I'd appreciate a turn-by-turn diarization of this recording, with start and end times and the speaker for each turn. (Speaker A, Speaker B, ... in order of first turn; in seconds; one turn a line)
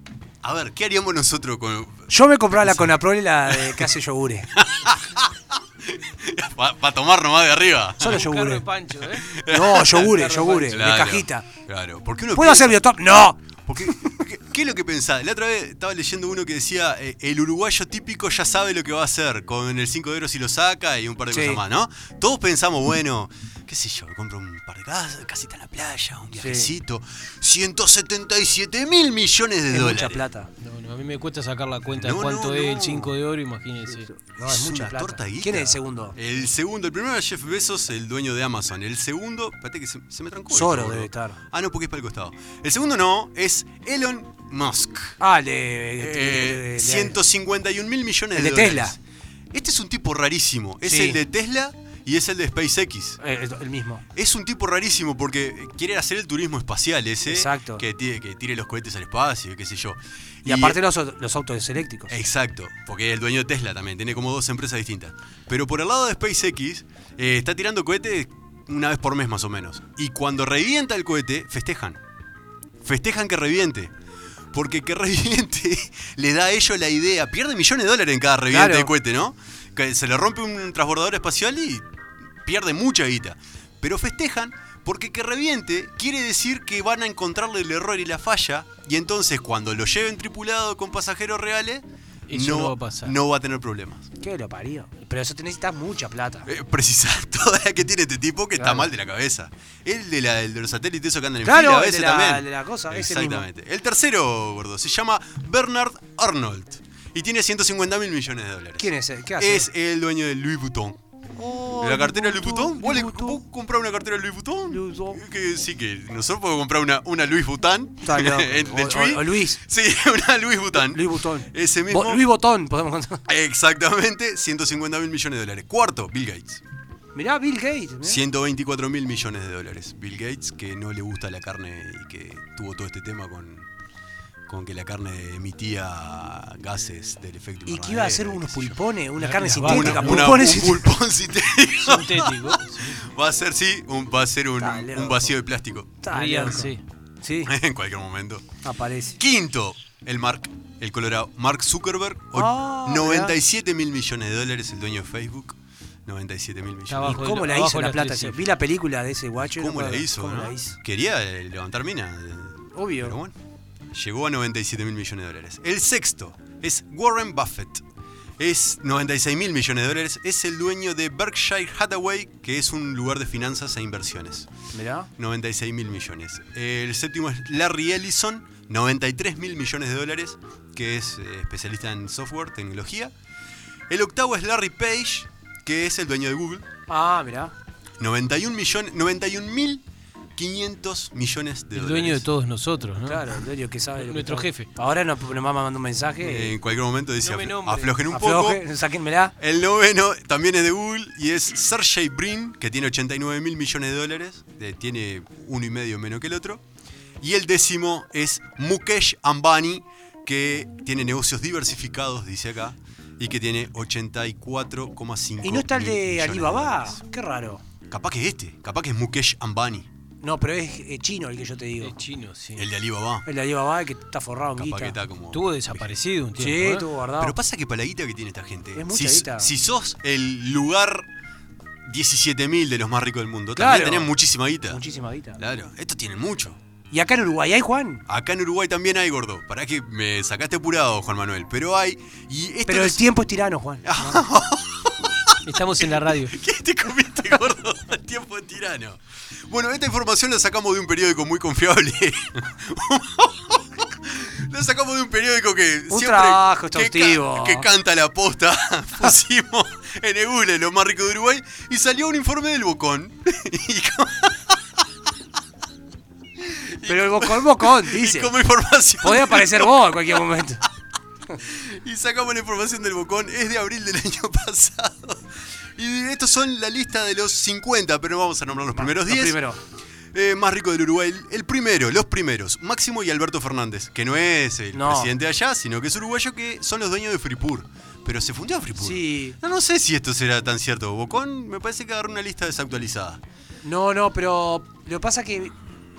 Speaker A: 0.4-3.9
Speaker B: 2.1-4.5
Speaker A: 4.5-8.3
Speaker B: 8.0-8.7
Speaker C: 8.1-9.3
Speaker A: 9.1-12.8
Speaker B: 9.5-11.5
Speaker C: 9.9-10.8
Speaker B: 12.3-14.1
Speaker A: 13.7-30.2
Speaker B: 21.3-21.6
Speaker B: 26.4-26.7
Speaker B: 29.7-30.5
Speaker C: 30.6-34.1
Speaker A: 31.9-33.1
Speaker B: 34.1-36.1
Speaker A: 34.4-45.2
Speaker B: 40.5-41.4
Speaker B: 45.2-47.2
Speaker A: 46.0-49.0
Speaker B: 48.4-49.0
Speaker A: 49.5-53.2
Speaker B: 50.9-51.2
Speaker B: 53.2-54.0
Speaker A: 54.1-60.8
Speaker B: 57.3-57.8
Speaker B: 60.5-62.2
Speaker A: 62.1-72.0
Speaker A: 72.8-73.9
Speaker A: 74.5-81.9
Speaker B: 78.5-78.9
Speaker A: 82.4-94.1
Speaker C: 92.3-93.2
Speaker B: 94.2-96.5
Speaker A: 96.5-111.0
Speaker B: 98.6-98.9
Speaker B: 101.4-103.5
Speaker B: 108.8-109.7
Speaker B: 111.4-113.4
Speaker A: 111.8-122.2
Speaker B: 114.7-115.2
Speaker B: 118.0-119.6
Speaker B: 120.8-123.2
Speaker A: 123.3-126.6
Speaker B: 127.2-128.2
Speaker A: 128.0-133.7
Speaker A: 134.5-138.8
Speaker B: 137.7-140.9
Speaker C: 139.2-140.7
Speaker A: 139.6-146.0
Speaker C: 141.8-143.0
Speaker B: 144.6-145.3
Speaker B: 146.0-147.5
Speaker C: 146.1-146.8
Speaker A: 147.5-148.6
Speaker B: 148.6-149.2
Speaker A: 149.2-157.3
Speaker B: 152.3-153.4
Speaker C: 156.9-158.5
Speaker B: 157.0-160.8
Speaker A: 159.4-163.3
Speaker B: 162.8-163.2
Speaker A: 163.9-167.8
Speaker A: 168.4-174.5
Speaker B: 174.7-175.1
Speaker A: 175.2-183.1
Speaker A: 183.9-186.7
Speaker B: 186.9-187.5
Speaker A: 188.0-189.8
Speaker A: 190.4-192.2
Speaker C: 191.8-193.3
Speaker B: 193.1-196.6
Speaker C: 194.0-194.7
Speaker A: 196.2-198.6
Speaker C: 197.2-197.9
Speaker B: 198.1-199.3
Speaker A: 199.4-206.6
Speaker A: 207.2-217.0
Speaker B: 215.4-217.6
Speaker A: 217.9-219.9
Speaker B: 220.2-221.9
Speaker C: 221.8-222.7
Speaker A: 222.6-223.3
Speaker B: 223.3-225.0
Speaker A: 224.6-226.0
Speaker C: 225.3-226.9
Speaker B: 226.4-227.4
Speaker A: 227.2-231.1
Speaker B: 228.8-229.5
Speaker A: 231.8-234.8
Speaker B: 233.6-234.1
Speaker B: 234.7-235.4
Speaker A: 235.4-236.6
Speaker B: 236.9-238.0
Speaker A: 238.1-243.1
Speaker B: 242.7-244.2
Speaker A: 243.8-264.8
Speaker C: 245.4-246.4
Speaker B: 255.9-257.7
Speaker A: 266.4-270.0
Speaker B: 266.9-268.3
Speaker B: 269.0-270.6
Speaker A: 271.4-275.2
Speaker A: 275.8-279.4
Speaker B: 278.7-279.6
Speaker A: 280.1-293.2
Speaker B: 284.7-285.1
Speaker B: 288.8-289.4
Speaker B: 293.6-295.5